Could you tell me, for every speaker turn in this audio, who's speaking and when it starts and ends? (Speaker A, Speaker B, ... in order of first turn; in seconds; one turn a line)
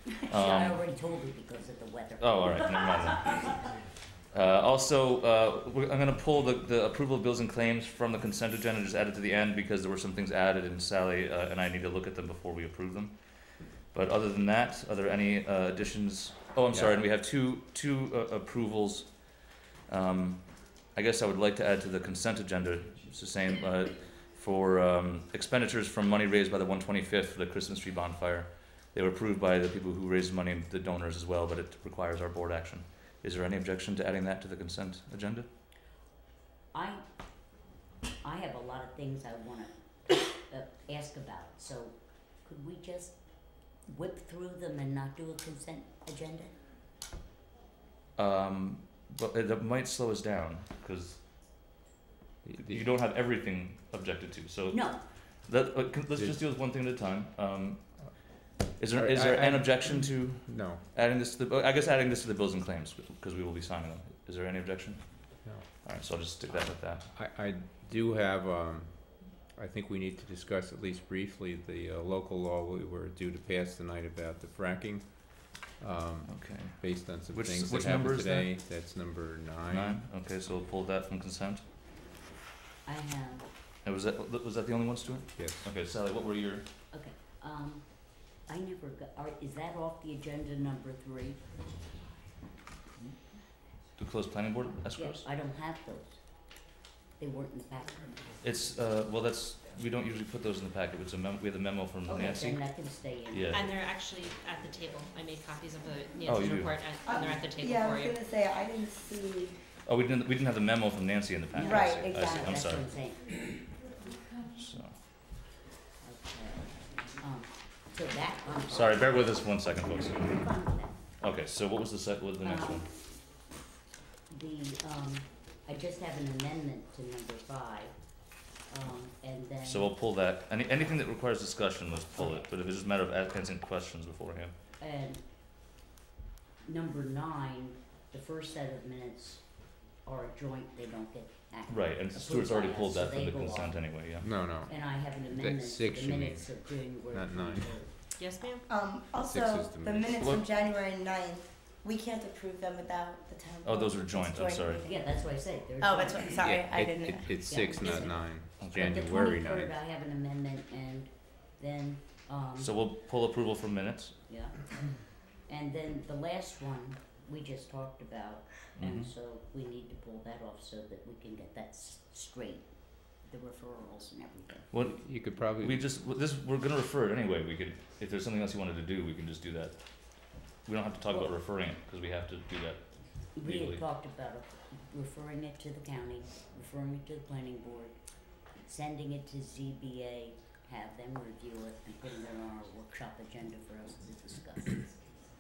Speaker A: 0.2-3.6
Speaker B: 0.3-0.8
Speaker B: 2.2-3.5
Speaker B: 4.3-13.2
Speaker B: 13.9-35.5
Speaker C: 16.7-17.0
Speaker A: 36.7-37.0
Speaker A: 38.2-43.2
Speaker A: 43.8-46.5
Speaker B: 48.2-51.2
Speaker C: 52.4-52.8
Speaker B: 52.6-58.0
Speaker A: 54.7-55.0
Speaker B: 58.8-67.1
Speaker C: 58.9-60.8
Speaker C: 67.1-80.0
Speaker B: 76.3-78.5
Speaker B: 79.7-81.6
Speaker A: 82.8-83.5
Speaker B: 83.8-86.6
Speaker C: 85.4-85.7
Speaker A: 86.9-91.4
Speaker B: 94.0-95.2
Speaker A: 94.9-96.2
Speaker A: 97.2-98.2
Speaker B: 98.4-102.6
Speaker A: 102.0-103.7
Speaker B: 103.3-103.7
Speaker D: 103.5-108.2
Speaker B: 106.2-106.9
Speaker E: 107.0-109.6
Speaker B: 109.8-112.9
Speaker A: 111.5-113.4
Speaker E: 111.6-112.4
Speaker B: 114.5-115.0
Speaker A: 116.0-119.2
Speaker B: 118.7-120.3
Speaker A: 120.2-121.0
Speaker B: 121.2-122.8
Speaker A: 122.4-122.9
Speaker A: 124.3-128.0
Speaker A: 128.7-129.9
Speaker B: 129.6-134.6
Speaker A: 134.8-135.2
Speaker A: 136.6-143.8
Speaker B: 141.7-144.3
Speaker C: 144.2-147.9
Speaker A: 144.6-148.0
Speaker D: 148.2-148.7
Speaker E: 148.7-155.0
Speaker C: 149.2-150.3
Speaker B: 150.2-150.4
Speaker B: 153.6-154.8
Speaker A: 154.8-156.4
Speaker E: 155.8-158.1
Speaker C: 156.4-159.7
Speaker A: 157.5-162.8
Speaker B: 158.6-159.0
Speaker B: 162.6-164.2
Speaker A: 164.3-174.7
Speaker B: 168.8-169.1
Speaker B: 174.7-183.8
Speaker C: 174.9-175.9
Speaker A: 181.1-181.3
Speaker A: 183.3-194.9